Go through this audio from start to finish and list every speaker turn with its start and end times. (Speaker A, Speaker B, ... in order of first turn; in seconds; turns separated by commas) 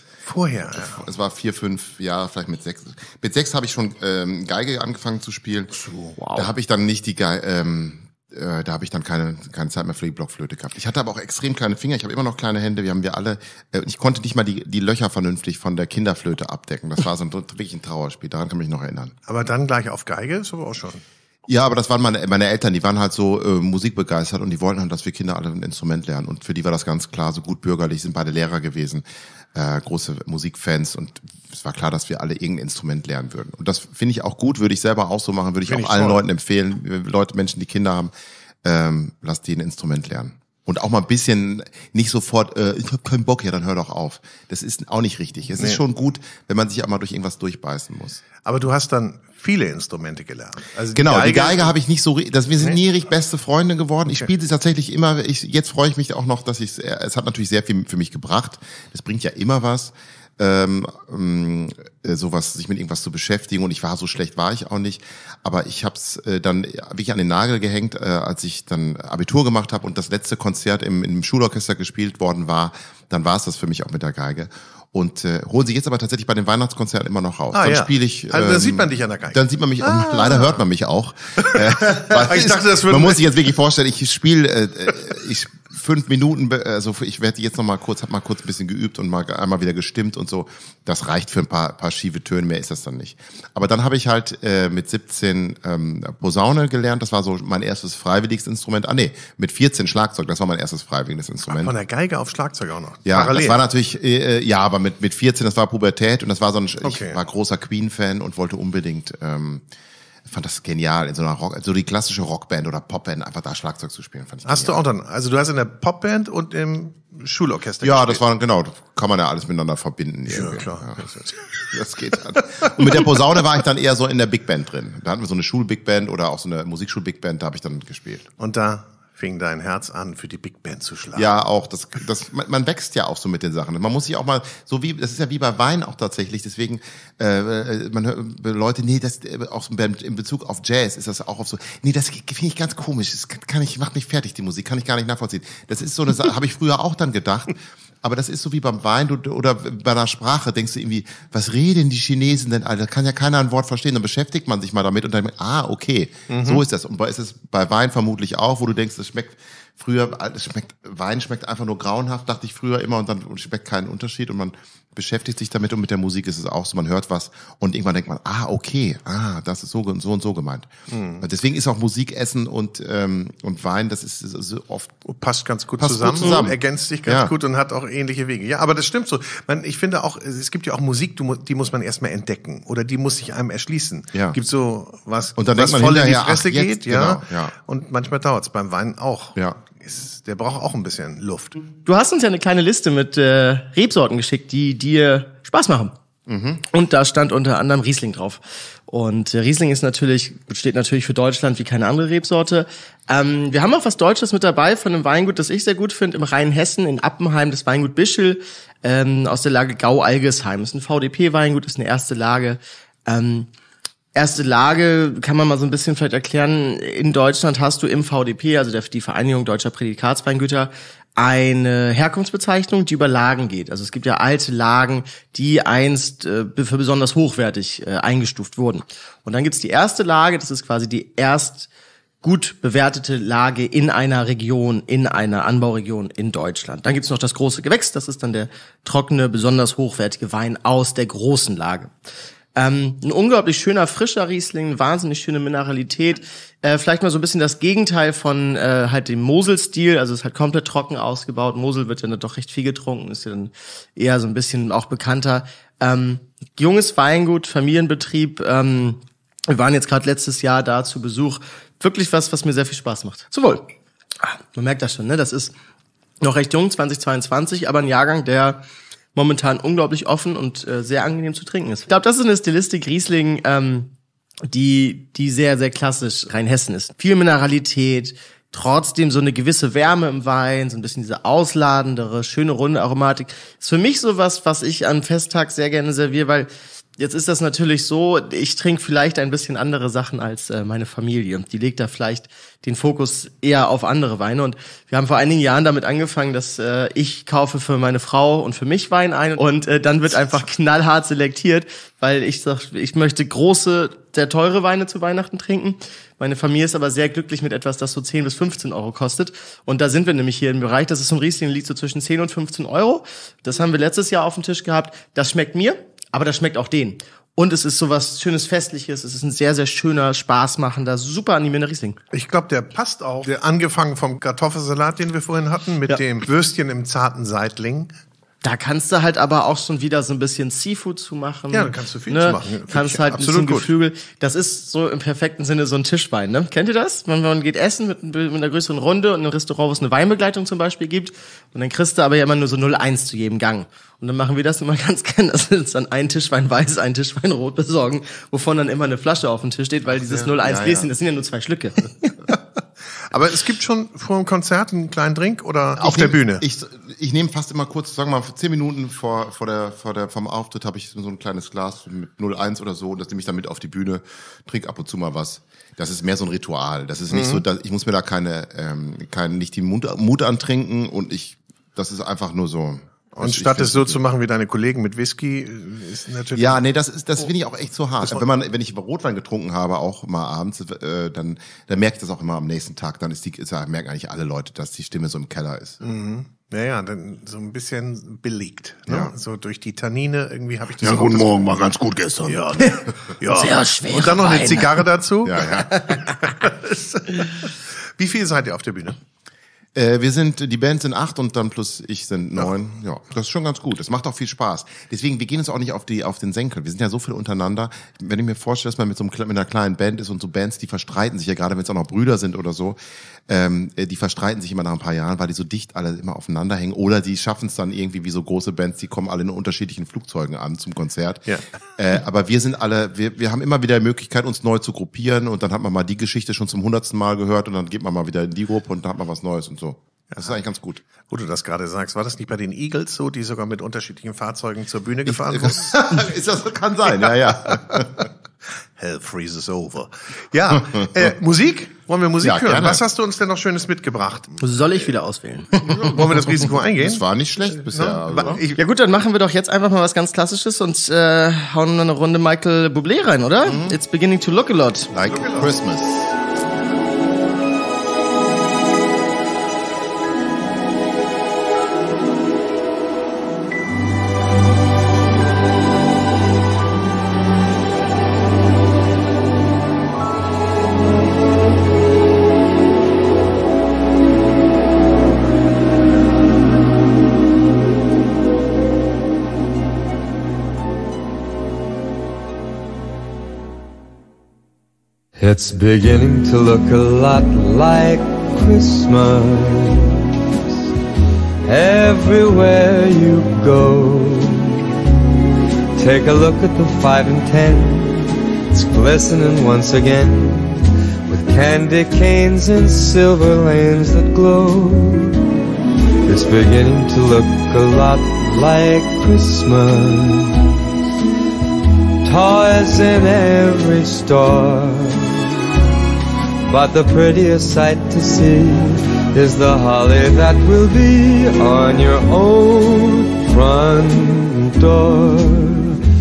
Speaker A: 0.2-1.0, Speaker B: 0.7-5.8, Speaker C: 5.8-6.5, Speaker B: 6.3-19.1, Speaker A: 19.2-21.0, Speaker B: 21.5-38.1, Speaker A: 35.6-36.2, Speaker B: 38.6-48.2, Speaker A: 45.6-45.8, Speaker A: 48.4-51.7, Speaker B: 50.9-101.7, Speaker A: 77.5-80.6, Speaker A: 81.4-83.2, Speaker A: 101.5-103.6, Speaker B: 103.0-109.6, Speaker A: 106.8-107.2, Speaker B: 110.3-114.8, Speaker A: 114.5-118.2, Speaker B: 117.8-128.3, Speaker A: 120.3-121.3, Speaker A: 128.4-131.3, Speaker B: 131.1-175.0, Speaker A: 156.3-156.6, Speaker A: 170.9-171.2, Speaker A: 175.1-191.6, Speaker B: 175.8-177.3, Speaker B: 185.4-187.5, Speaker C: 191.8-195.9, Speaker B: 196.3-196.6, Speaker C: 196.7-213.5, Speaker C: 214.1-231.7, Speaker C: 232.2-241.9, Speaker C: 242.6-263.7, Speaker C: 264.2-265.5, Speaker C: 266.2-268.6, Speaker C: 269.1-273.9, Speaker C: 274.5-322.0, Speaker A: 322.1-327.9, Speaker C: 328.4-352.1, Speaker A: 331.5-333.7, Speaker B: 350.0-350.9, Speaker A: 353.1-356.4, Speaker B: 355.8-374.0, Speaker A: 367.1-367.4, Speaker A: 373.1-376.6, Speaker B: 376.3-385.8, Speaker A: 385.8-391.5, Speaker B: 388.9-389.1, Speaker B: 390.8-392.8, Speaker C: 392.6-394.8, Speaker A: 393.2-399.0, Speaker B: 395.2-395.8, Speaker B: 399.7-412.8, Speaker B: 413.3-430.8, Speaker A: 431.0-436.0, Speaker B: 435.1-438.1, Speaker A: 437.0-437.8, Speaker A: 438.8-444.4, Speaker B: 442.2-442.8, Speaker C: 444.4-445.7, Speaker A: 445.6-447.0, Speaker B: 445.6-448.4, Speaker A: 447.5-448.6, Speaker C: 448.5-454.9, Speaker B: 453.4-453.8, Speaker B: 454.9-456.1, Speaker A: 455.1-455.4, Speaker D: 485.2-490.6, Speaker D: 491.4-494.8, Speaker D: 495.8-505.2, Speaker D: 506.1-510.5, Speaker D: 512.0-515.4, Speaker D: 516.5-525.8